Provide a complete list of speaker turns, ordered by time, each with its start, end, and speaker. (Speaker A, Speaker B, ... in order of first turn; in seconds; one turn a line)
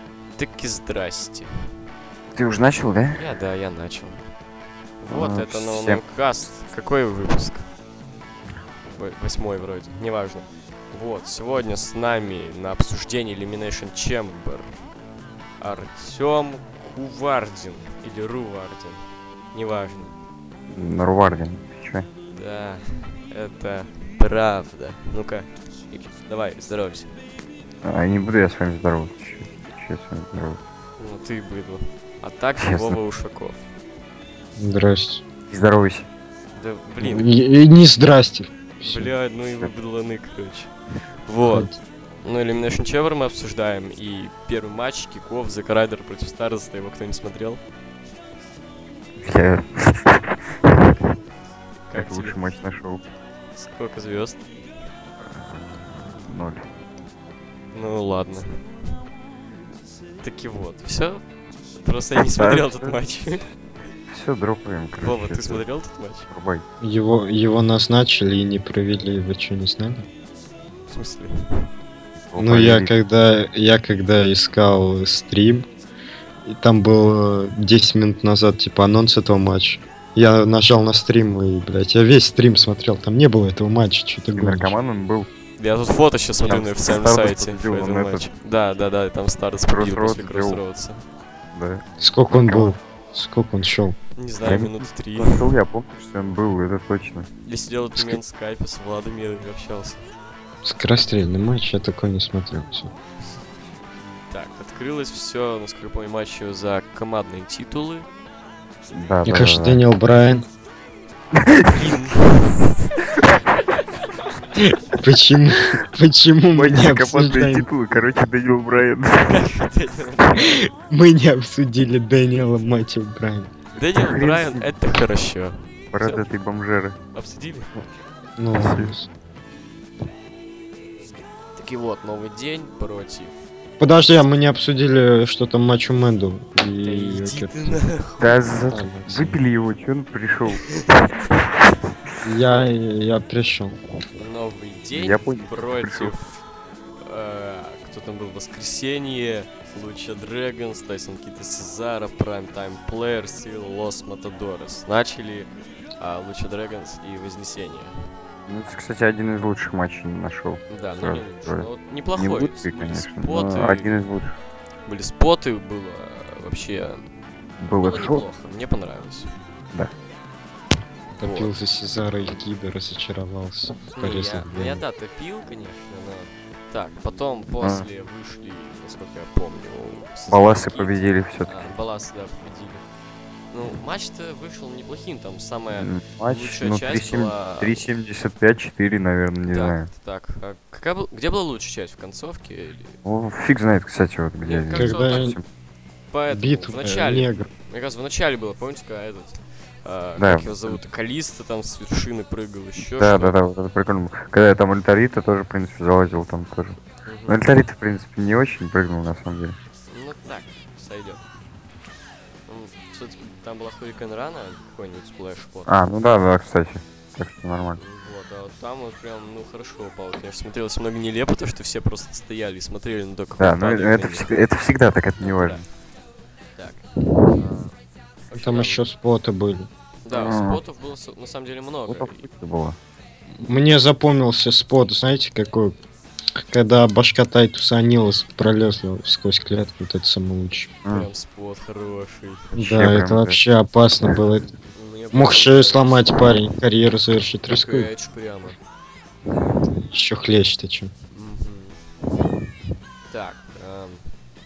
Speaker A: 0.4-1.5
Speaker B: 2.3-3.2
Speaker A: 3.1-4.3
Speaker A: 5.0-7.7
Speaker B: 5.1-6.0
Speaker A: 8.8-14.7
Speaker A: 15.6-20.1
Speaker B: 20.7-22.1
Speaker A: 22.3-27.1
Speaker B: 27.8-30.6
Speaker A: 31.0-33.6
Speaker B: 32.6-33.0
Speaker C: 34.5-35.2
Speaker B: 35.5-36.1
Speaker A: 36.5-37.3
Speaker C: 37.0-39.1
Speaker A: 38.8-40.7
Speaker A: 41.3-41.7
Speaker C: 41.5-41.8
Speaker A: 42.2-47.6
Speaker B: 49.2-51.0
Speaker A: 51.9-52.4
Speaker B: 51.9-53.0
Speaker A: 53.5-54.4
Speaker B: 55.8-56.6
Speaker A: 57.7-58.6
Speaker A: 60.2-61.2
Speaker A: 61.8-63.5
Speaker B: 62.2-62.9
Speaker B: 64.1-65.6
Speaker A: 65.0-66.3
Speaker B: 66.3-66.6
Speaker C: 66.8-70.0
Speaker A: 70.9-71.6
Speaker B: 72.3-72.9
Speaker C: 72.4-75.7
Speaker C: 76.4-84.7
Speaker B: 84.3-85.3
Speaker A: 85.6-91.0
Speaker B: 86.3-88.3
Speaker B: 89.7-90.6
Speaker B: 91.5-92.7
Speaker C: 92.0-94.0
Speaker A: 94.2-95.5
Speaker B: 94.4-97.3
Speaker A: 97.4-100.1
Speaker C: 100.6-102.9
Speaker A: 104.3-108.1
Speaker B: 108.9-109.8
Speaker C: 109.2-110.5
Speaker B: 111.3-111.9
Speaker A: 111.7-112.3
Speaker C: 114.5-117.7
Speaker B: 116.5-119.4
Speaker A: 119.2-120.7
Speaker C: 120.4-123.5
Speaker A: 123.7-126.2
Speaker B: 124.0-124.7
Speaker B: 125.9-127.0
Speaker A: 127.1-127.8
Speaker C: 128.4-129.1
Speaker B: 128.5-128.9
Speaker A: 131.0-133.3
Speaker C: 133.8-137.8
Speaker A: 136.8-138.4
Speaker B: 138.2-140.7
Speaker C: 138.7-139.4
Speaker A: 140.6-141.2
Speaker C: 142.2-143.8
Speaker A: 144.2-146.4
Speaker B: 144.9-146.1
Speaker A: 147.0-157.9
Speaker B: 158.5-164.3
Speaker A: 160.7-163.9
Speaker A: 164.8-167.1
Speaker B: 167.6-168.2
Speaker A: 167.8-169.3
Speaker C: 171.1-174.8
Speaker A: 171.2-171.5
Speaker A: 173.9-182.8
Speaker B: 180.3-181.7
Speaker A: 183.5-187.8
Speaker B: 185.7-189.9
Speaker A: 189.5-192.9
Speaker B: 193.0-195.4
Speaker A: 194.4-195.4
Speaker C: 194.7-195.4
Speaker A: 196.1-203.4
Speaker C: 196.3-197.5
Speaker B: 200.2-200.8
Speaker B: 202.9-209.6
Speaker A: 207.0-207.4
Speaker A: 209.9-211.2
Speaker A: 212.5-215.7
Speaker B: 215.7-217.8
Speaker A: 217.8-224.4
Speaker B: 223.4-225.6
Speaker A: 225.2-225.6
Speaker A: 226.6-227.8
Speaker A: 228.3-228.8
Speaker C: 228.3-229.7
Speaker A: 230.0-232.2
Speaker B: 230.1-230.6
Speaker B: 231.9-232.8
Speaker C: 233.4-235.8
Speaker C: 236.5-240.7
Speaker B: 240.8-241.1
Speaker A: 240.9-242.5
Speaker B: 242.5-243.4
Speaker C: 242.6-244.5
Speaker A: 244.6-246.3
Speaker C: 245.1-247.9
Speaker A: 247.5-248.6
Speaker C: 249.8-250.9
Speaker A: 251.1-251.8
Speaker A: 253.1-254.1